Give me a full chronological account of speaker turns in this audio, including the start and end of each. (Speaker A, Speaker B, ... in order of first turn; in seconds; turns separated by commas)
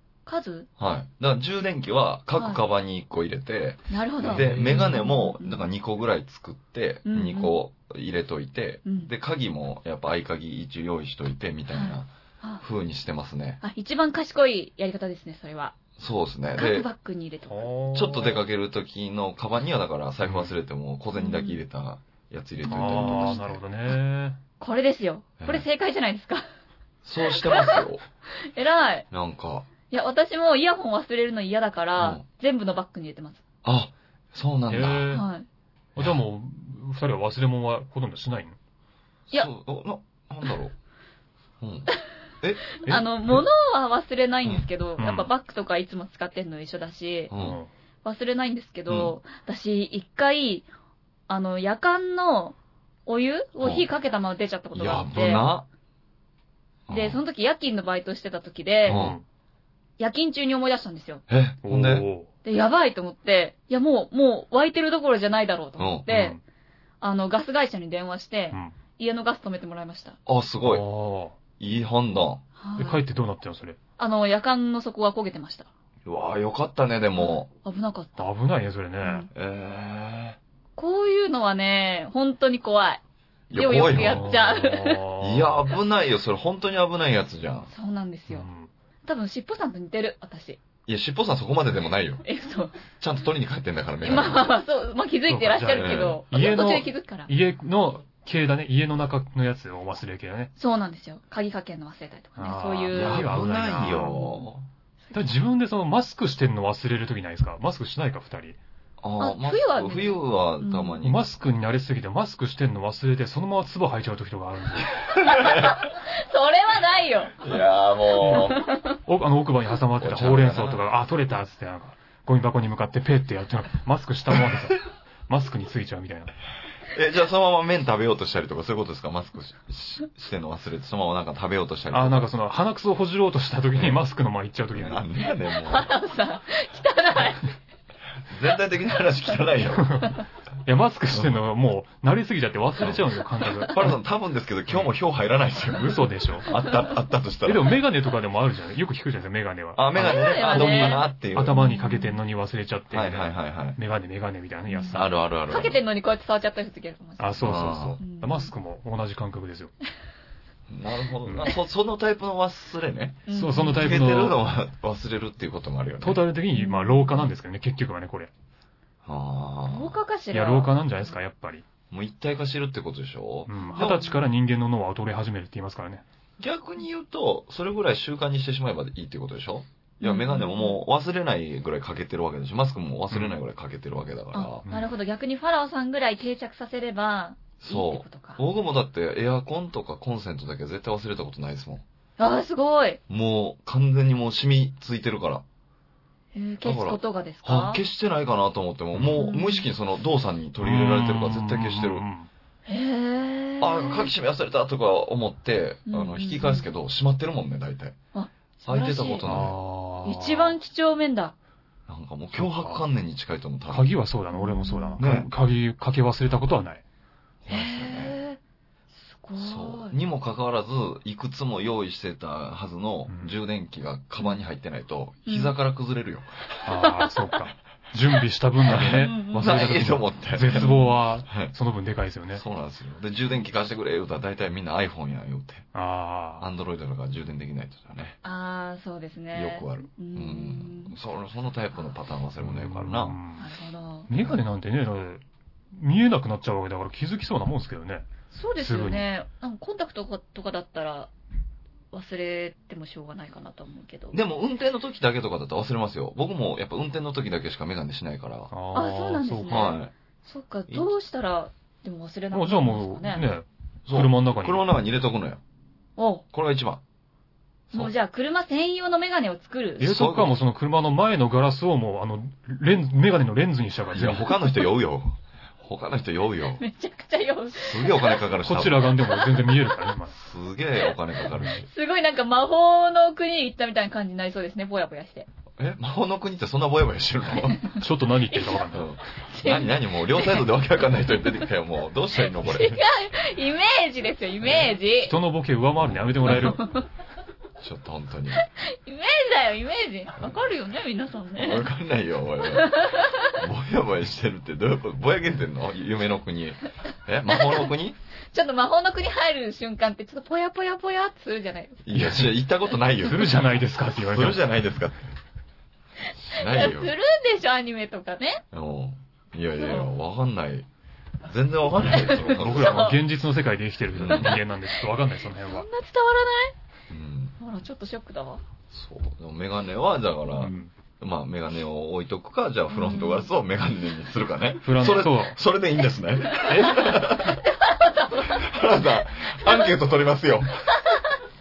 Speaker A: 0.3-0.7, Speaker B: 0.8-12.1, Speaker A: 3.9-5.6, Speaker C: 4.2-4.7, Speaker A: 7.1-7.6, Speaker A: 8.8-9.1, Speaker A: 11.7-12.6, Speaker B: 12.6-13.6, Speaker A: 13.6-15.8, Speaker B: 16.0-16.9, Speaker A: 16.6-17.7, Speaker C: 17.5-18.4, Speaker B: 17.9-23.6, Speaker A: 21.1-21.6, Speaker C: 22.6-24.4, Speaker A: 24.6-26.4, Speaker B: 25.4-25.7, Speaker B: 27.1-28.0, Speaker A: 27.3-27.8, Speaker A: 28.4-29.1, Speaker B: 29.1-29.7, Speaker A: 29.9-33.4, Speaker B: 32.0-32.2, Speaker B: 33.6-35.1, Speaker C: 34.7-35.3, Speaker A: 35.1-35.5, Speaker C: 36.0-38.6, Speaker B: 39.3-40.8, Speaker B: 41.6-41.9, Speaker B: 42.4-43.4, Speaker A: 42.7-47.3, Speaker C: 45.0-45.3, Speaker B: 47.3-47.6, Speaker C: 47.3-47.7, Speaker A: 48.0-50.7, Speaker A: 51.3-55.4, Speaker B: 53.6-53.9, Speaker B: 54.7-55.7, Speaker B: 56.9-57.2, Speaker A: 56.9-59.1, Speaker B: 58.9-59.2, Speaker C: 58.9-59.2, Speaker A: 60.0-61.2, Speaker B: 61.3-62.1, Speaker C: 61.6-62.3, Speaker A: 62.4-66.4, Speaker B: 65.8-66.1, Speaker C: 66.1-66.4, Speaker A: 67.0-70.2, Speaker B: 70.3-70.8, Speaker C: 70.6-71.3, Speaker B: 71.6-72.4, Speaker A: 72.6-73.0, Speaker C: 72.8-73.8, Speaker A: 74.0-75.7, Speaker B: 76.0-77.5, Speaker A: 77.2-78.3, Speaker C: 78.2-79.3, Speaker A: 79.0-79.3, Speaker B: 79.3-80.4, Speaker A: 80.8-83.0, Speaker B: 83.5-84.4, Speaker A: 83.5-85.0, Speaker C: 83.8-85.7, Speaker B: 85.2-87.7, Speaker A: 87.7-88.5, Speaker C: 88.3-88.7, Speaker A: 89.0-90.6, Speaker B: 90.9-92.2, Speaker A: 92.2-92.8, Speaker B: 93.0-94.5, Speaker A: 94.0-97.3, Speaker C: 95.3-100.5, Speaker B: 95.8-96.2, Speaker A: 100.6-104.5, Speaker C: 102.4-104.2, Speaker B: 102.9-104.7, Speaker A: 105.1-105.4, Speaker C: 105.1-108.6, Speaker B: 109.0-111.3, Speaker A: 109.2-111.0, Speaker C: 111.0-115.0, Speaker B: 115.2-115.8, Speaker A: 115.2-117.6, Speaker B: 117.4-118.6, Speaker A: 118.2-119.0, Speaker C: 119.1-126.4, Speaker B: 120.0-120.8, Speaker B: 126.9-132.3, Speaker C: 131.9-135.0, Speaker B: 133.7-134.0, Speaker B: 134.7-135.9, Speaker A: 135.5-137.5, Speaker B: 138.3-140.1, Speaker C: 140.7-143.9, Speaker B: 141.1-141.4, Speaker B: 143.7-147.8, Speaker C: 145.8-146.5, Speaker A: 146.5-146.9, Speaker C: 147.4-150.0, Speaker B: 149.8-151.6, Speaker A: 149.9-152.2, Speaker C: 150.5-155.1, Speaker B: 152.9-153.8, Speaker A: 154.7-158.5, Speaker B: 154.9-155.8, Speaker C: 157.2-159.7, Speaker B: 157.4-158.0, Speaker B: 160.7-166.2, Speaker C: 161.2-161.5, Speaker A: 163.3-164.1, Speaker C: 163.3-164.4, Speaker C: 166.0-168.3, Speaker A: 166.5-167.3, Speaker B: 169.0-170.0, Speaker A: 169.7-170.7, Speaker C: 170.3-171.7, Speaker B: 171.9-174.1, Speaker C: 173.5-176.0, Speaker A: 173.7-174.2, Speaker B: 176.4-184.6, Speaker A: 180.0-180.8, Speaker C: 183.1-183.4, Speaker A: 184.3-188.4, Speaker C: 184.6-184.9, Speaker B: 187.6-191.8, Speaker A: 192.2-193.0, Speaker B: 193.1-195.4, Speaker A: 196.3-197.8, Speaker B: 196.6-202.1, Speaker A: 199.2-199.7, Speaker C: 200.6-202.3, Speaker A: 202.7-204.1, Speaker B: 203.6-208.0, Speaker A: 205.9-206.7, Speaker A: 208.1-209.4, Speaker B: 208.6-209.6, Speaker C: 209.2-210.6, Speaker A: 210.1-211.3, Speaker B: 211.9-213.9, Speaker C: 212.3-212.8, Speaker C: 213.7-216.8, Speaker A: 214.3-215.0, Speaker B: 215.0-215.3, Speaker B: 217.4-218.2, Speaker A: 217.5-218.4, Speaker A: 218.9-219.9, Speaker B: 219.4-226.3, Speaker C: 223.1-223.3, Speaker A: 225.3-225.5, Speaker C: 226.7-232.4, Speaker B: 228.7-230.7, Speaker A: 228.7-229.6, Speaker A: 230.5-231.0, Speaker B: 232.3-235.7, Speaker C: 235.7-236.5, Speaker B: 236.4-238.2, Speaker A: 238.2-240.9, Speaker B: 239.3-243.2, Speaker C: 242.4-243.5, Speaker A: 243.4-244.1, Speaker C: 244.1-249.1, Speaker A: 248.3-251.1, Speaker A: 251.9-254.2, Speaker B: 254.1-258.5, Speaker C: 258.5-259.7, Speaker A: 258.7-263.2, Speaker B: 259.5-259.9, Speaker C: 262.3-264.7, Speaker B: 263.9-265.4, Speaker A: 266.0-266.2, Speaker B: 266.3-266.8, Speaker A: 267.7-269.9, Speaker C: 269.8-274.3, Speaker B: 269.8-270.4, Speaker B: 273.9-276.6, Speaker A: 276.6-278.3, Speaker B: 277.6-279.2, Speaker C: 278.4-280.1, Speaker A: 279.3-279.8, Speaker B: 280.1-281.7, Speaker A: 281.4-285.3, Speaker B: 285.6-287.7, Speaker C: 287.7-288.9, Speaker A: 288.3-290.5, Speaker B: 288.7-292.8, Speaker A: 292.2-295.1, Speaker B: 294.4-294.8, Speaker C: 295.0-296.6, Speaker B: 295.8-296.6, Speaker A: 296.3-296.9, Speaker B: 297.6-298.5, Speaker A: 298.4-301.7, Speaker B: 301.4-308.0, Speaker A: 302.4-303.4, Speaker A: 307.3-307.7, Speaker A: 308.3-311.8, Speaker B: 311.9-313.4, Speaker C: 311.9-312.3, Speaker C: 313.0-314.4, Speaker B: 314.0-315.1, Speaker B: 316.2-316.9, Speaker A: 316.3-318.4, Speaker B: 318.5-320.7, Speaker A: 319.6-319.9, Speaker B: 321.2-322.8, Speaker A: 321.9-323.0, Speaker C: 322.3-325.7, Speaker B: 323.9-324.4, Speaker A: 324.1-326.6, Speaker B: 326.9-327.4, Speaker A: 327.4-328.4, Speaker B: 328.7-337.4, Speaker C: 330.4-330.7, Speaker A: 332.7-333.3, Speaker C: 334.6-335.4, Speaker C: 336.5-337.1, Speaker A: 337.7-338.4, Speaker B: 338.2-340.7